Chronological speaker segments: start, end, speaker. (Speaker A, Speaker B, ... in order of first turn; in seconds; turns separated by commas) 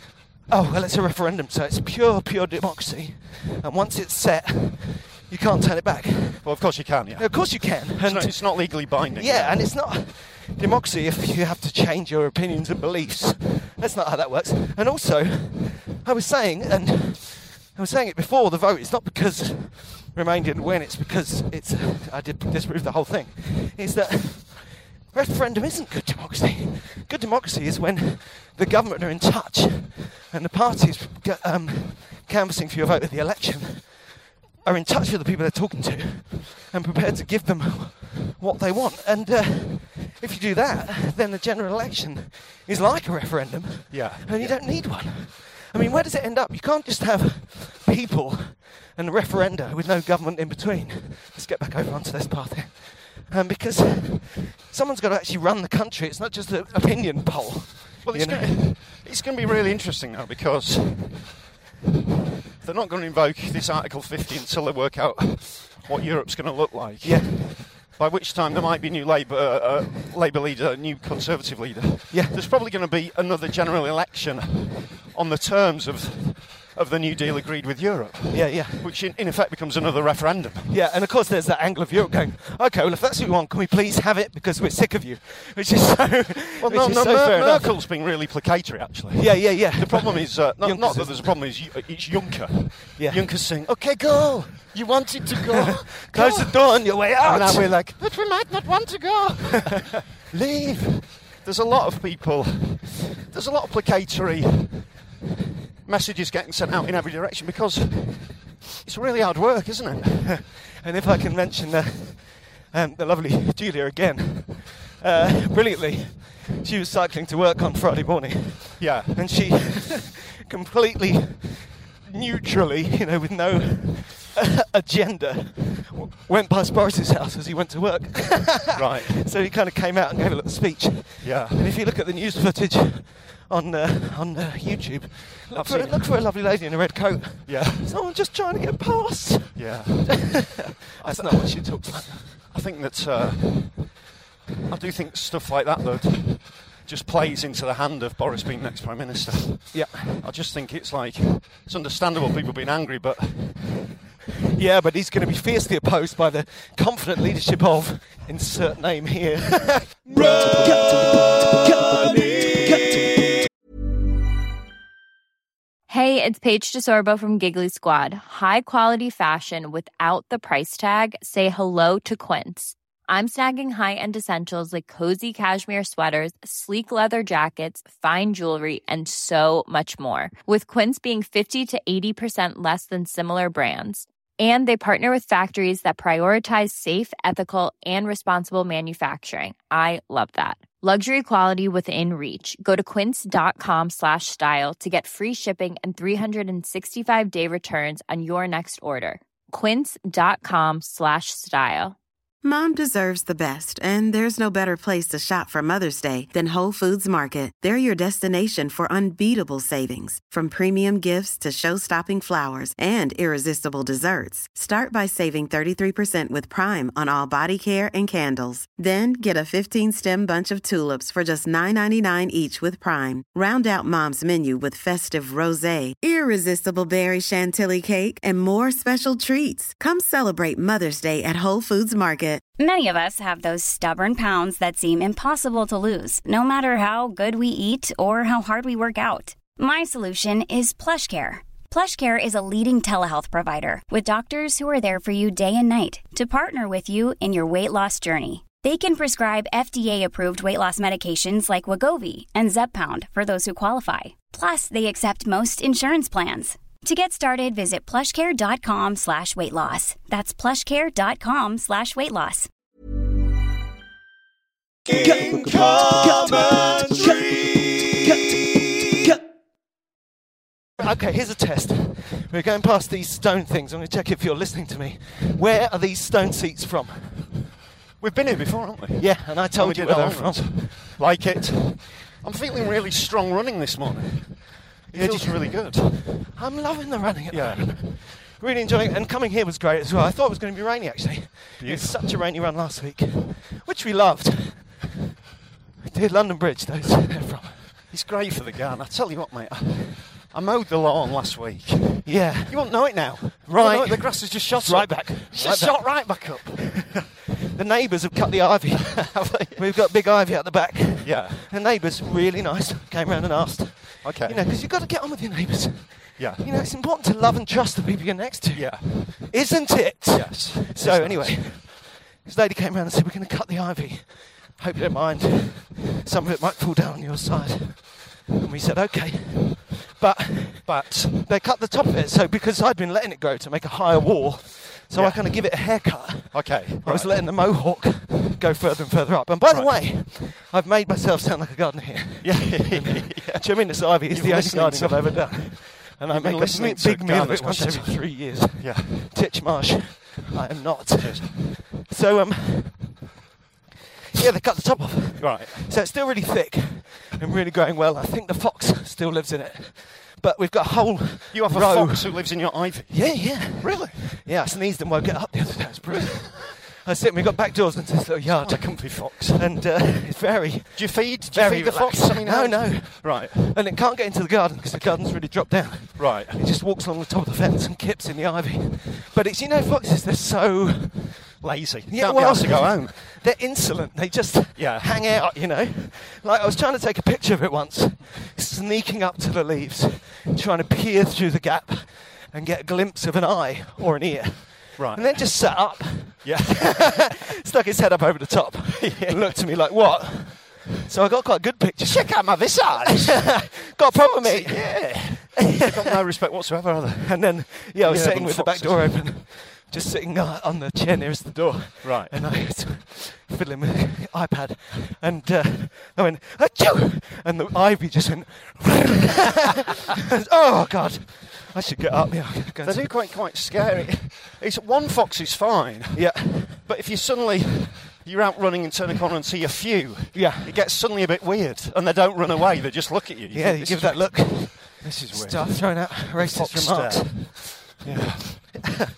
Speaker A: 0.5-58.5, Speaker B: 6.4-9.7, Speaker B: 43.9-44.7, Speaker B: 58.0-61.3, Speaker B: 62.6-80.7, Speaker A: 67.0-67.5, Speaker A: 72.1-72.4, Speaker A: 78.3-78.9, Speaker A: 80.7-87.8, Speaker B: 86.6-105.0, Speaker A: 89.2-91.5, Speaker A: 93.0-93.3, Speaker A: 96.1-97.8, Speaker B: 105.9-110.4, Speaker A: 110.8-142.3, Speaker B: 118.8-119.2, Speaker B: 128.8-129.2, Speaker B: 131.2-131.7, Speaker B: 135.5-136.1, Speaker B: 137.5-137.9, Speaker B: 139.6-144.1, Speaker B: 144.7-153.7, Speaker A: 149.7-150.2, Speaker A: 154.6-163.3, Speaker C: 165.9-202.0, Speaker D: 202.4-232.4, Speaker E: 232.6-262.5, Speaker A: 264.9-269.2, Speaker A: 270.8-277.4, Speaker B: 278.0-286.3, Speaker A: 279.0-281.0, Speaker A: 284.9-294.9, Speaker B: 287.3-287.7, Speaker B: 291.6-292.1, Speaker A: 295.8-297.7, Speaker B: 297.9-306.9, Speaker A: 302.1-306.3, Speaker A: 307.5-353.0, Speaker B: 308.8-309.6, Speaker B: 311.0-311.4, Speaker B: 314.0-314.5, Speaker B: 316.2-316.4, Speaker B: 318.5-319.5, Speaker B: 320.1-321.5, Speaker B: 330.7-331.2, Speaker B: 334.9-337.2, Speaker B: 339.5-339.8, Speaker B: 342.2-349.1, Speaker B: 351.0-351.3, Speaker A: 354.1-405.6, Speaker B: 355.2-355.7, Speaker B: 361.3-364.1, Speaker B: 368.3-369.5, Speaker B: 370.8-373.9, Speaker B: 374.7-376.4, Speaker B: 381.4-383.0, Speaker B: 384.6-384.9, Speaker B: 394.8-397.2, Speaker B: 398.8-399.3, Speaker B: 401.8-409.1, Speaker A: 407.0-422.9, Speaker B: 411.8-412.2, Speaker B: 422.6-438.5, Speaker A: 425.9-426.6, Speaker A: 430.1-430.5, Speaker A: 433.3-437.7